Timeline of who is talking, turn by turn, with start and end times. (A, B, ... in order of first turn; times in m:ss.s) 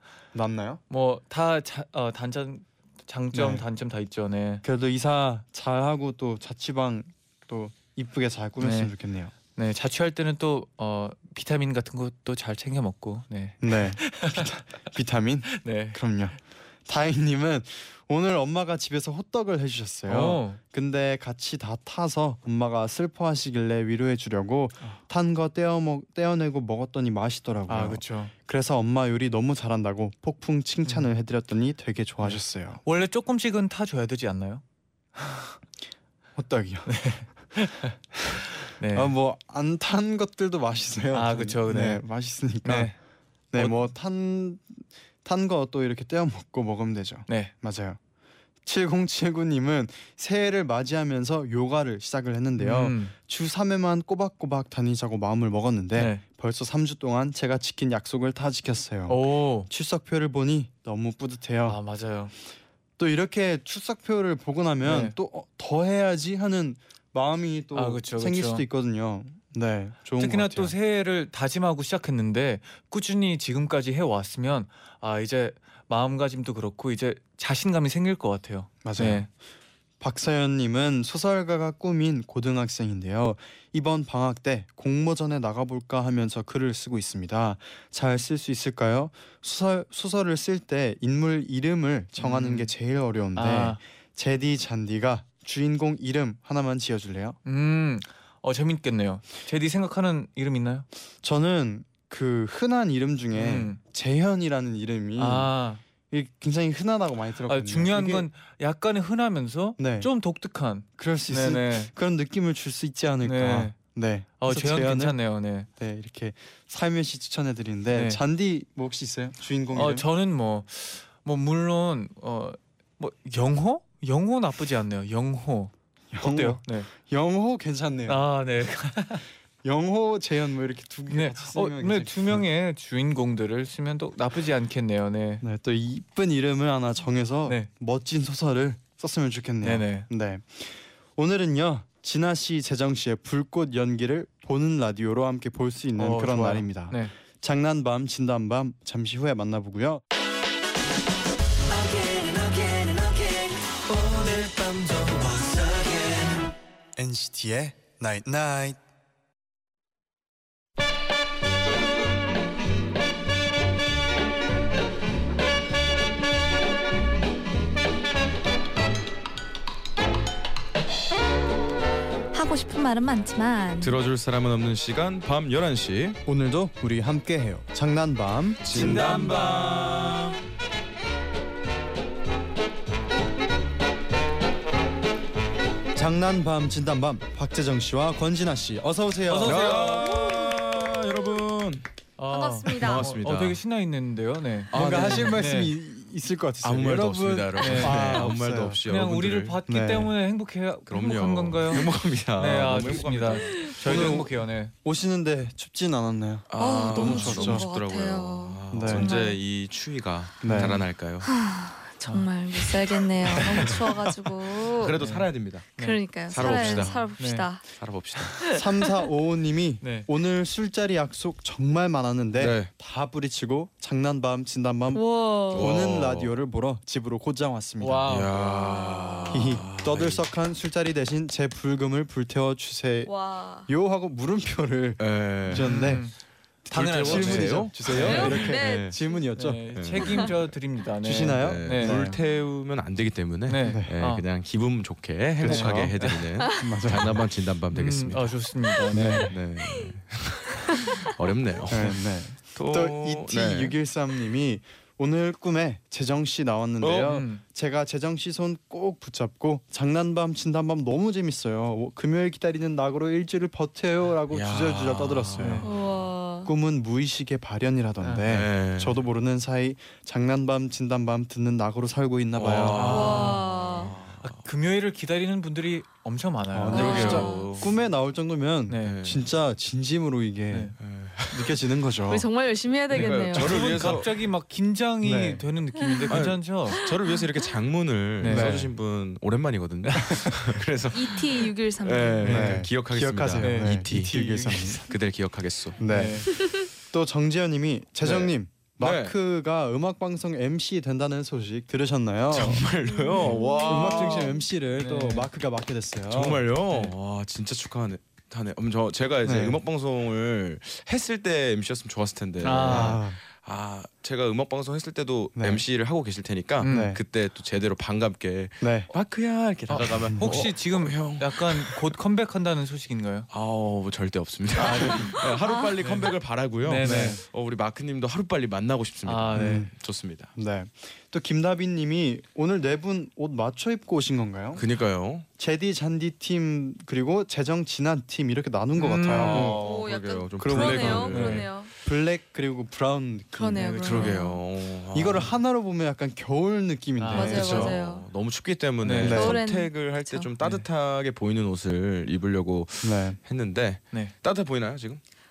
0:00.3-0:00.8 A
0:00.9-0:04.6 B
0:03.3-0:03.6 A
0:04.6-0:09.3 A
0:08.6-0:14.5 B
0:13.6-0:32.8 A
0:15.5-0:16.0 B
0:20.1-0:20.6 B
0:27.7-0:28.3 B
0:32.2-0:34.6 B
0:35.2-0:35.6 B
0:36.4-0:37.0 A
0:36.9-0:38.0 B
0:38.1-0:43.0 A
0:38.7-0:39.2 B
0:41.1-0:42.0 B
0:42.6-0:43.0 B
0:43.5-0:48.0 A
0:43.6-0:43.8 B
0:47.3-0:47.5 B
0:48.6-1:01.8 A
0:52.6-0:53.1 B
0:56.0-0:56.2 B
0:59.1-0:59.7 B
1:01.6-1:02.3 B
1:03.0-1:10.8 A
1:04.8-1:05.2 B
1:07.8-1:08.7 B
1:10.2-1:19.3 B
1:18.8-1:19.3 A
1:20.0-1:37.4 A
1:32.2-1:32.7 B
1:33.4-1:33.8 B
1:37.4-1:40.9 B
1:41.2-1:45.5 A
1:43.3-1:43.8 B
1:45.2-1:45.8 B
1:46.1-1:48.3 A
1:47.5-1:51.9 B
1:49.8-1:50.1 A
1:51.0-1:55.2 A
1:53.2-1:53.8 B
1:54.4-1:55.7 B
1:55.8-2:00.1 A
1:57.9-1:58.2 B
1:59.7-2:06.9 B
2:06.1-2:08.2 A
2:08.1-2:09.2 B
2:09.6-2:12.4 A
2:11.1-2:15.4 B
2:15.4-2:30.0 A
2:19.6-2:20.1 B
2:26.0-2:27.1 B
2:31.7-2:36.5 C
2:37.0-2:38.8 A
2:52.3-2:54.0 D
2:53.8-2:56.2 E
2:56.3-2:59.4 A
2:58.6-3:00.4 E
3:05.9-3:10.0 A
3:09.3-3:10.1 B
3:09.4-3:11.9 E
3:12.2-3:15.8 B
3:12.3-3:13.1 D
3:12.7-3:13.6 E
3:14.7-3:15.4 E
3:14.7-3:18.8 A
3:16.6-3:19.6 E
3:17.6-3:18.2 B
3:18.8-3:24.7 B
3:19.7-3:20.2 A
3:20.9-3:24.3 E
3:23.8-3:27.7 A
3:26.5-3:31.3 E
3:26.6-3:29.4 D
3:28.7-3:29.1 A
3:30.4-3:30.8 A
3:30.4-3:30.8 B
3:31.2-3:35.0 D
3:32.6-3:35.7 E
3:35.0-3:37.5 B
3:35.8-3:37.6 D
3:36.3-3:37.1 E
3:37.7-3:38.5 E
3:38.4-3:38.9 D
3:38.5-3:48.1 A
3:39.8-3:40.1 B
3:42.4-3:42.7 E
3:44.9-3:45.8 D
3:45.5-3:46.3 E
3:47.8-3:49.2 B
3:48.1-3:50.2 E
3:49.3-3:53.1 A
3:53.0-3:53.7 D
3:53.7-3:56.1 A
3:55.0-3:55.9 E
3:55.5-3:56.2 B
3:56.7-4:00.2 A
3:56.7-3:58.5 B
3:56.7-3:59.0 E
3:57.9-3:59.2 D
3:59.4-4:02.1 B
3:59.8-4:00.5 E
4:01.0-4:02.2 A
4:01.3-4:08.5 E
4:03.5-4:04.2 B
4:03.6-4:03.9 A
4:05.4-4:06.0 A
4:05.4-4:06.3 B
4:06.5-4:07.2 A
4:07.7-4:09.4 B
4:08.9-4:09.4 A
4:09.2-4:12.0 E
4:11.7-4:25.7 A
4:12.5-4:13.8 E
4:16.8-4:17.2 E
4:17.0-4:17.4 B
4:24.3-4:25.7 E
4:25.4-4:25.7 B
4:25.6-4:26.5 D
4:26.4-4:33.4 A
4:28.2-4:29.0 E
4:32.4-4:34.4 E
4:32.8-4:33.4 B
4:32.8-4:33.9 D
4:34.2-4:37.3 B
4:36.5-4:40.8 A
4:36.7-4:37.7 D
4:36.7-4:37.7 E
4:38.7-4:39.0 B
4:38.8-4:39.2 E
4:40.8-4:41.6 E
4:41.3-4:42.3 A
4:42.1-4:43.8 D
4:42.9-4:44.2 E
4:43.0-4:46.8 B
4:43.6-4:44.0 A
4:45.0-4:45.5 A
4:45.8-4:46.1 D
4:46.1-4:55.8 E
4:46.7-4:47.2 D
4:48.2-4:48.6 B
4:48.2-4:48.7 A
4:50.9-4:52.5 D
4:52.2-4:54.9 A
4:53.4-4:53.9 B
4:55.8-4:56.4 A
4:55.9-4:56.3 B
4:56.9-5:02.7 A
4:58.0-4:59.1 E
5:02.3-5:04.4 E
5:02.9-5:04.4 D
5:03.2-5:03.5 B
5:03.4-5:06.5 A
5:04.8-5:05.3 B
5:06.1-5:21.9 E
5:09.2-5:09.6 A
5:12.4-5:13.0 B
5:12.7-5:13.2 A
5:15.4-5:15.6 A
5:16.6-5:17.0 B
5:16.6-5:17.0 A
5:18.6-5:18.9 A
5:19.7-5:23.3 B
5:20.1-5:20.5 A
5:23.3-5:30.3 E
5:24.6-5:25.2 B
5:25.4-5:25.7 D
5:25.8-5:27.2 B
5:26.8-5:27.2 A
5:29.0-5:29.7 B
5:29.3-5:29.7 A
5:30.4-5:34.7 A
5:34.5-5:35.3 E
5:35.4-5:39.6 A
5:38.8-5:39.7 B
5:39.1-5:41.4 E
5:39.2-5:41.7 D
5:40.4-5:41.3 A
5:40.9-5:41.5 B
5:41.8-5:43.9 A
5:43.4-5:44.4 D
5:43.6-5:44.3 B
5:43.8-5:45.3 E
5:44.9-5:47.8 A
5:47.0-5:47.7 B
5:47.1-5:48.1 D
5:47.3-5:55.0 E
5:48.8-5:49.3 B
5:49.0-5:49.4 A
5:49.0-5:50.3 D
5:50.4-5:50.7 B
5:52.8-5:53.2 A